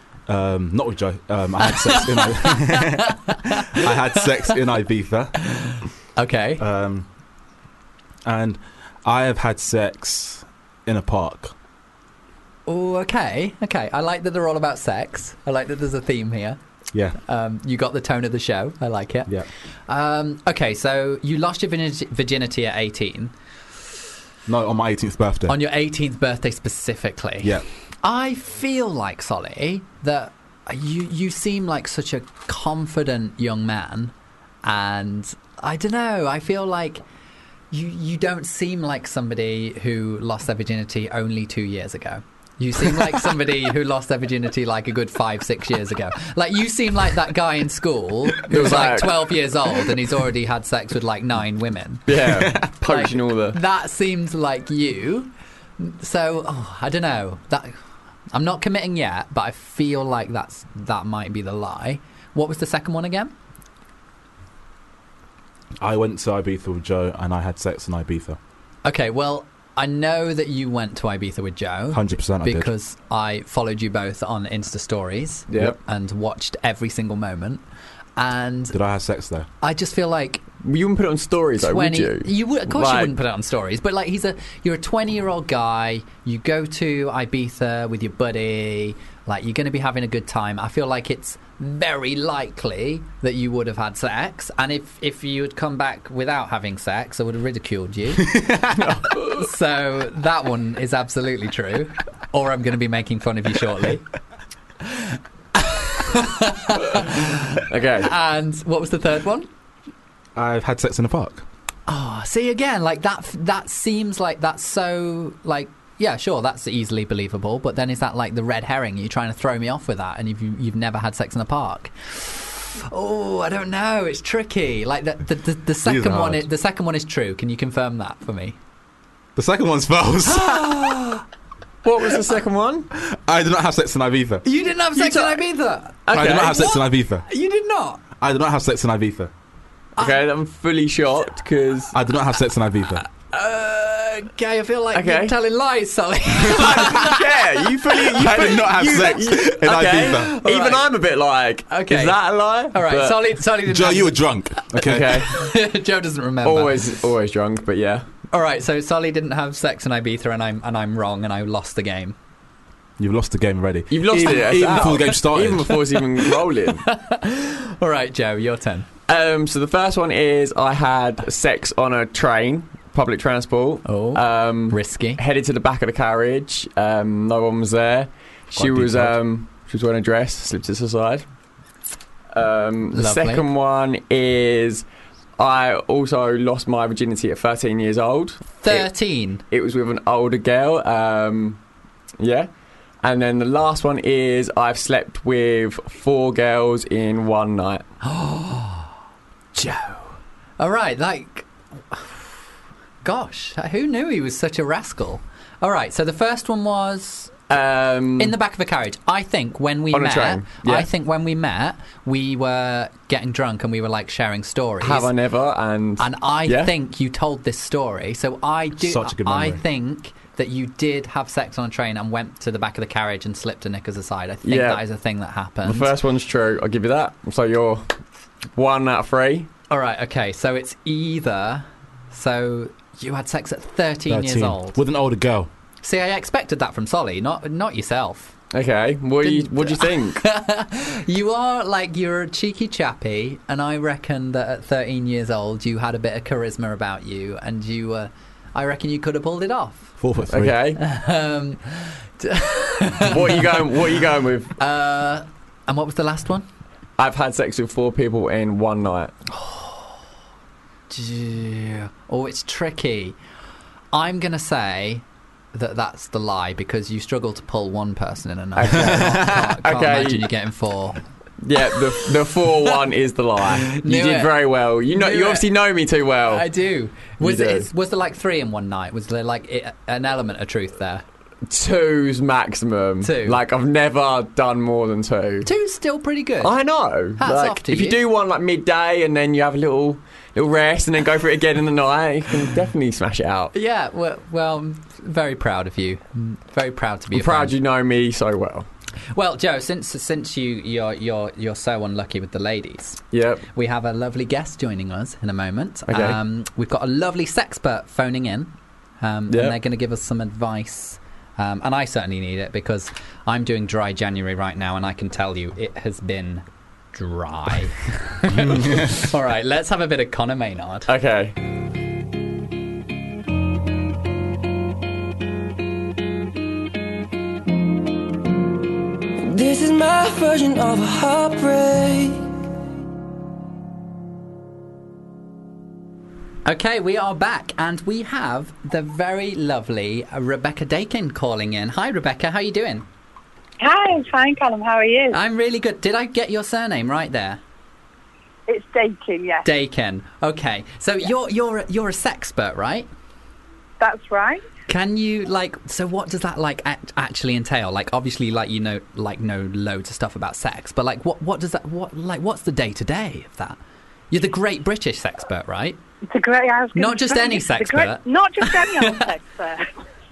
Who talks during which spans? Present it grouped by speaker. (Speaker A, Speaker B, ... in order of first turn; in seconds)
Speaker A: 0.3-5.3, 6.6-7.1, 8.2-11.5, 16.9-17.2, 24.5-25.6, 52.2-52.7, 65.8-68.4, 71.9-72.7, 78.7-79.5, 98.3-98.8, 110.4-111.5, 125.8-126.5, 129.4-130.8, 133.0-134.4, 136.1-137.2, 138.2-139.3, 141.9-143.1, 148.0-150.3, 153.7-155.3, 163.0-165.8, 178.6-179.2, 218.8-219.6, 234.1-235.5, 250.0-250.7
Speaker B: 1.6-4.6, 5.5-6.6, 12.7-16.6, 17.2-19.3, 19.9-23.3, 25.5-34.1, 34.6-37.0, 37.7-52.1, 52.9-57.8, 58.3-63.3, 68.8-77.6, 78.2-78.8, 79.6-80.4, 81.6-98.5, 99.2-104.0, 105.6-109.5, 111.9-128.6, 130.3-131.2, 134.4-138.0, 143.2-147.2, 150.2-150.8, 151.7-152.2, 152.7-156.9, 158.3-162.2, 164.2-164.9, 166.9-168.9, 173.9-175.2, 182.9-183.4, 188.6-189.4, 198.0-198.9, 199.6-202.3, 203.0-207.3, 208.2-215.1, 216.0-225.9, 229.7-234.8, 235.8-238.4, 239.2-249.9, 250.8-253.6, 254.6-256.5, 259.3-260.0, 260.9-263.2, 263.9-271.0, 273.7-274.4, 274.9-275.5, 276.3-281.0, 283.0-283.4, 285.4-286.6, 287.2-288.0, 293.5-297.6, 299.1-303.0, 303.5-320.9, 336.5-342.9, 345.1-347.4, 349.4-352.9, 354.7-363.6, 364.1-365.8, 366.8-369.0
Speaker C: 48.5-49.4, 52.1-53.6, 75.5-75.8, 80.6-83.1, 98.8-99.3, 107.7-108.1, 131.8-132.9, 135.0-135.4, 136.1-136.6, 140.0-142.0, 144.9-145.3, 146.5-153.2, 154.8-155.4, 156.4-158.1, 163.9-166.9, 169.1-181.2, 182.3-184.8, 185.4-188.9, 189.5-191.6, 192.2-192.5, 193.0-197.9, 207.5-208.4, 209.9-210.9, 214.8-216.7, 224.5-224.8, 225.7-227.9, 228.6-229.5, 238.5-240.2, 250.3-250.8, 253.1-254.5, 257.0-259.1, 268.6-270.2, 271.4-276.5, 277.2-277.7, 281.5-285.5, 286.4-293.5, 297.1-298.7, 303.1-303.4, 305.9-306.2, 309.3-309.6, 320.9-321.4
Speaker D: 329.2-332.3
Speaker E: 343.6-345.2, 348.5-349.5, 353.8-354.4, 366.1-369.7